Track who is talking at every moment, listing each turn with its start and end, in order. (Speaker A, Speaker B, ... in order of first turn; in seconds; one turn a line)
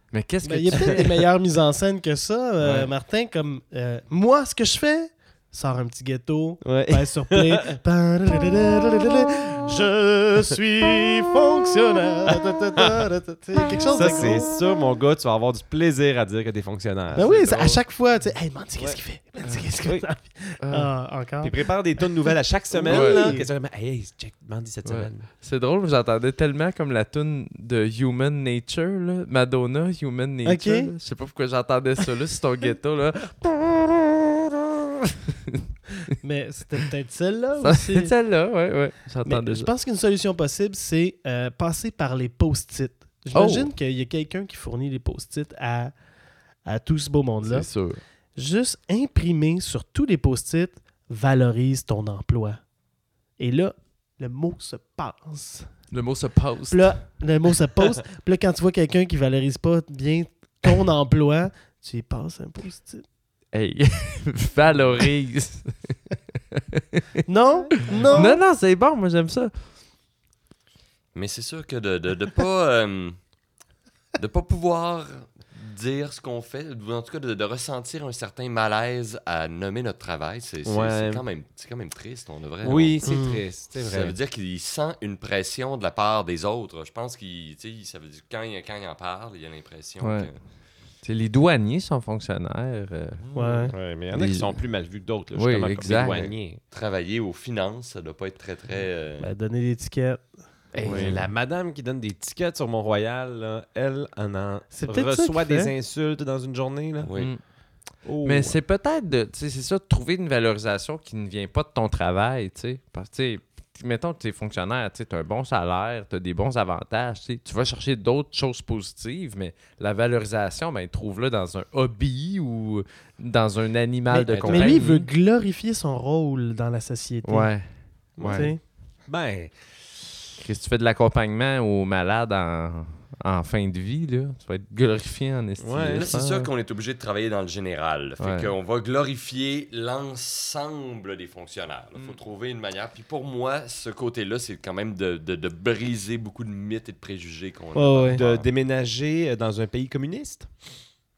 Speaker A: 0.1-1.2
Speaker B: 0.4-14.5
Speaker A: 2.6-2.9
Speaker C: 6.6-7.7
Speaker C: 13.9-17.7
Speaker B: 17.1-23.5
Speaker A: 17.2-17.7
Speaker A: 20.6-20.9
Speaker C: 21.4-25.3
Speaker A: 22.9-23.4
Speaker A: 24.8-35.6
Speaker B: 30.4-30.9
Speaker B: 36.2-38.1
Speaker A: 37.6-39.7
Speaker B: 39.2-45.9
Speaker A: 43.3-43.7
Speaker B: 46.6-47.7
Speaker A: 47.4-48.0
Speaker B: 48.4-52.6
Speaker B: 53.4-55.7
Speaker A: 55.9-57.0
Speaker B: 56.7-63.0
Speaker A: 63.5-66.0
Speaker A: 66.5-67.0
Speaker B: 67.2-68.4
Speaker A: 68.1-69.5
Speaker D: 71.1-73.2
Speaker D: 74.2-83.0
Speaker C: 80.6-81.2
Speaker C: 82.6-84.2
Speaker B: 83.0-83.4
Speaker D: 83.8-90.4
Speaker A: 90.0-90.3
Speaker A: 91.0-93.2
Speaker D: 93.2-93.6
Speaker B: 93.3-93.7
Speaker C: 93.7-96.6
Speaker A: 94.1-94.6
Speaker A: 95.3-96.3
Speaker D: 95.9-99.3
Speaker B: 99.2-100.2
Speaker C: 100.7-107.1
Speaker A: 100.7-101.3
Speaker B: 104.7-105.7
Speaker D: 107.0-107.3
Speaker C: 108.0-108.6
Speaker A: 108.2-125.1
Speaker B: 124.1-127.5
Speaker C: 124.3-124.8
Speaker A: 127.2-127.7
Speaker A: 128.2-128.5
Speaker C: 128.2-128.5
Speaker B: 128.3-128.6
Speaker C: 129.1-129.5
Speaker A: 130.4-136.5
Speaker C: 135.6-136.1
Speaker D: 135.9-148.5
Speaker A: 138.2-138.5
Speaker B: 147.7-148.2
Speaker C: 148.1-150.5